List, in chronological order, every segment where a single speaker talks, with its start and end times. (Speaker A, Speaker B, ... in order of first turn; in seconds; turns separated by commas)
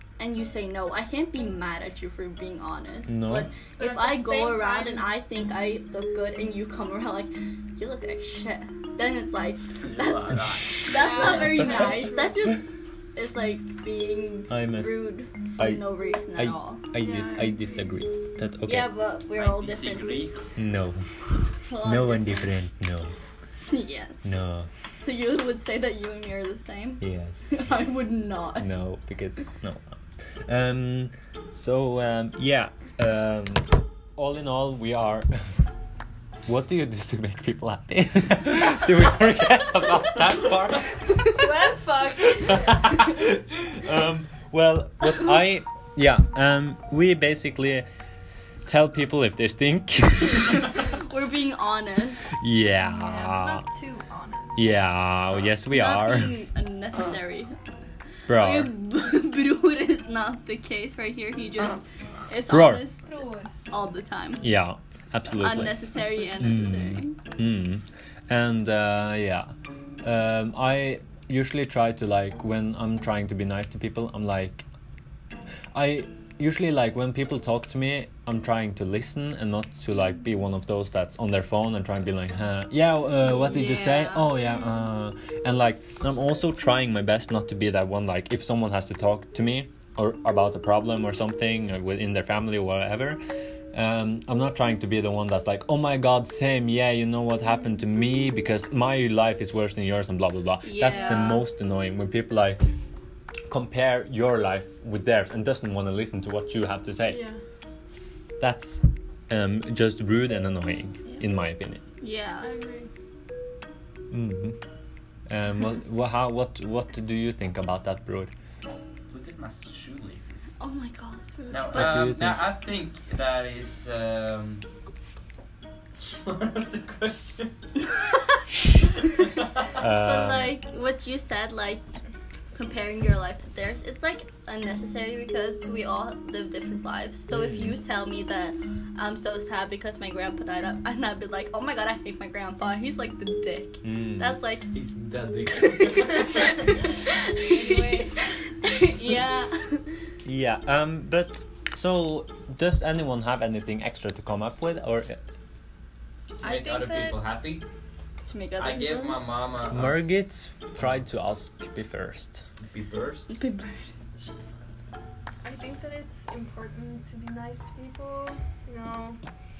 Speaker A: 0.2-16.8, Speaker B: 3.1-3.5, Speaker C: 3.7-5.1, Speaker D: 9.8-11.9, Speaker C: 10.8-12.4, Speaker B: 14.5-15.1, Speaker B: 15.6-18.9, Speaker C: 17.0-17.9, Speaker A: 18.6-20.3, Speaker D: 19.4-20.4, Speaker B: 20.6-21.0, Speaker A: 21.7-22.5, Speaker B: 21.8-23.1, Speaker A: 23.7-24.2, Speaker B: 24.2-24.7, Speaker A: 24.9-28.7, Speaker B: 27.0-27.7, Speaker B: 28.6-35.7, Speaker B: 36.5-41.5, Speaker C: 41.3-42.9, Speaker B: 42.5-47.9, Speaker B: 48.6-50.7, Speaker A: 50.7-52.3, Speaker B: 52.4-53.6, Speaker C: 52.9-54.6, Speaker B: 54.5-56.4, Speaker A: 55.7-57.5, Speaker B: 58.3-58.7, Speaker A: 58.3-63.1, Speaker B: 62.5-62.8, Speaker C: 63.0-63.5, Speaker A: 63.7-64.5, Speaker B: 64.4-69.5, Speaker A: 65.2-67.2, Speaker B: 70.0-74.7, Speaker B: 75.7-93.2, Speaker A: 83.2-84.2, Speaker B: 93.7-102.6, Speaker A: 100.6-101.4, Speaker C: 100.9-101.2, Speaker B: 103.5-107.2, Speaker C: 107.0-107.4, Speaker B: 108.4-111.8, Speaker A: 112.0-112.5, Speaker C: 112.4-112.9, Speaker B: 114.1-114.6, Speaker B: 115.3-118.3, Speaker D: 119.1-120.6, Speaker A: 120.6-122.2, Speaker D: 121.5-124.7, Speaker B: 121.7-122.4, Speaker D: 126.0-127.5, Speaker D: 129.0-129.7, Speaker B: 129.8-130.5, Speaker A: 129.8-131.8, Speaker A: 132.5-144.7, Speaker B: 137.3-137.8, Speaker B: 143.8-144.4, Speaker D: 144.8-145.1, Speaker A: 145.8-148.0, Speaker C: 147.5-148.3, Speaker A: 148.6-149.9, Speaker B: 150.2-155.2, Speaker C: 156.4-157.2, Speaker D: 156.4-157.7, Speaker A: 158.3-159.2, Speaker D: 158.6-160.1, Speaker B: 159.7-162.4, Speaker D: 162.7-163.3, Speaker A: 163.3-163.8, Speaker C: 165.4-169.2